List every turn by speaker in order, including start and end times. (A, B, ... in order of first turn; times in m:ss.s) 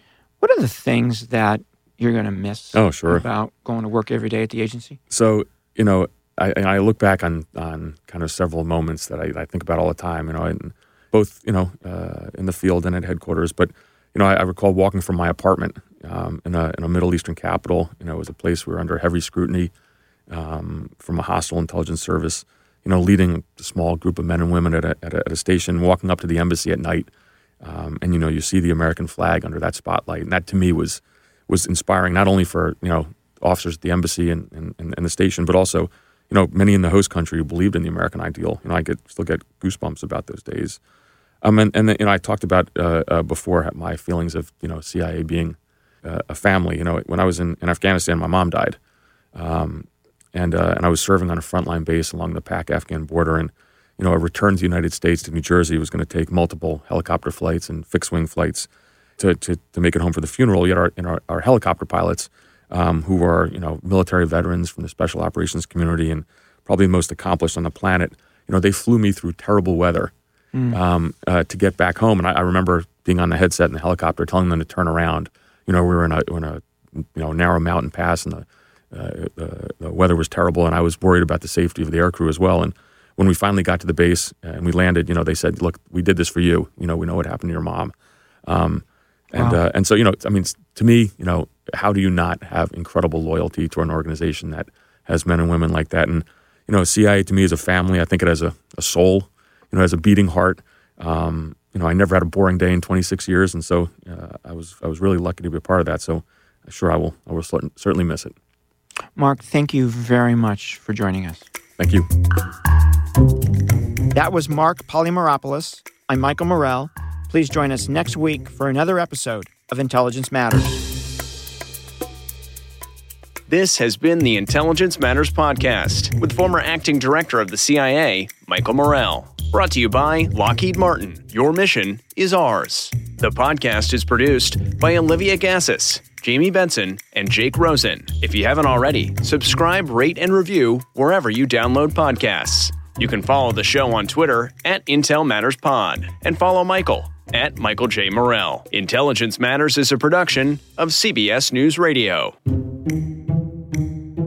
0:00.4-0:05.0 A
0:02.7-0:03.3 B
0:05.1-0:19.7 B
0:20.3-0:27.1 B
0:27.6-0:40.8 B
0:41.4-0:48.8 B
0:49.4-1:10.1 B
1:10.5-1:10.8 A
1:10.7-1:27.9 B
1:28.5-1:48.4 B
1:29.4-1:29.6 A
1:49.2-1:51.5 A
1:51.8-1:52.1 B
1:54.1-2:00.8 A
2:03.5-2:32.4 C